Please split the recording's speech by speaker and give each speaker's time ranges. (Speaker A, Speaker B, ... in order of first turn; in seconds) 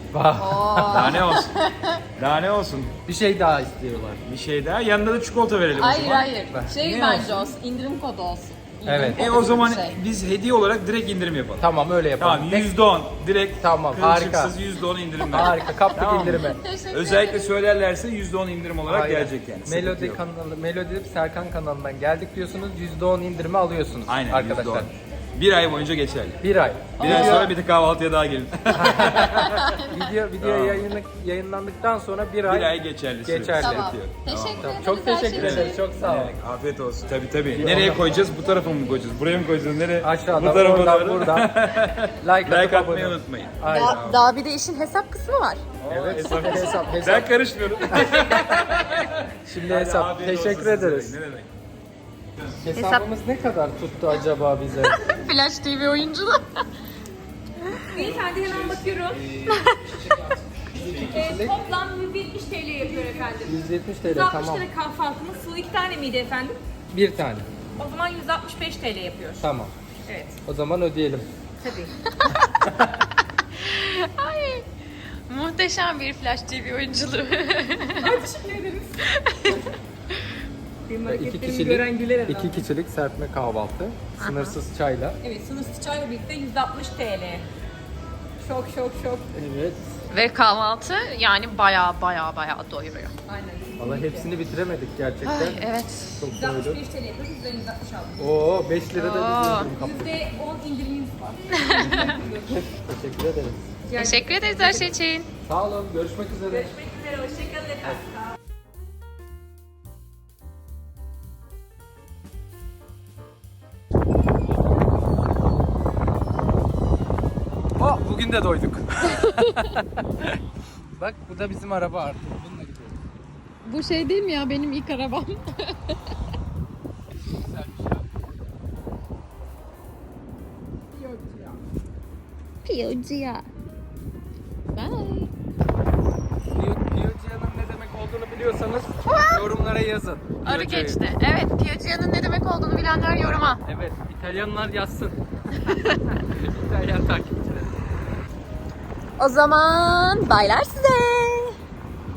Speaker A: 0.1-1.2, 3.1-4.2, 6.5-6.8, 8.8-9.3, 11.6-12.7, 13.6-14.6, 15.3-16.6, 18.9-24.9, 26.4-27.5, 28.7-33.9, 34.6-36.4, 37.5-38.1, 40.0-41.5, 42.2-44.0, 45.9-47.4, 47.9-48.6, 49.5-51.2, 52.6-55.0, 61.0-61.6, 63.4-64.7, 66.9-67.5, 69.4-69.7, 70.5-71.3, 81.1-85.2, 89.3-89.8, 93.8-95.6, 96.2-96.8, 98.2-100.2, 102.4-103.7, 105.5-106.7, 117.8-120.4, 120.9-123.0, 136.5-141.0, 143.7-145.2, 146.1-147.8
Speaker B: 0.4-2.0, 5.7-10.0, 16.3-17.5, 27.0-27.5, 33.6-35.8, 43.7-45.6, 46.4-46.9, 52.7-53.1, 54.8-56.6, 59.5-59.8, 72.2-72.5, 73.6-74.7, 75.3-78.2, 79.1-79.6, 84.2-84.6, 90.1-93.1, 95.2-96.1, 98.9-99.7, 101.7-102.1, 104.0-105.3, 119.2-119.5, 123.6-126.0, 132.6-133.5, 134.8-135.3, 139.0-139.5, 140.4-143.6, 149.2-151.6
Speaker C: 0.9-1.6, 2.2-2.9, 4.2-7.5, 9.2-20.2, 24.1-26.4, 27.0-29.8, 30.4-30.9, 32.5-34.8, 35.3-44.2, 45.8-51.5, 58.0-61.4
Speaker D: 57.9-59.2, 60.9-66.6, 67.8-69.5, 70.1-70.4, 71.6-72.0, 78.0-79.6, 80.9-82.7, 85.2-87.5, 88.4-89.3, 93.3-94.3, 96.3-98.2, 99.7-102.7, 103.8-104.9, 106.5-108.0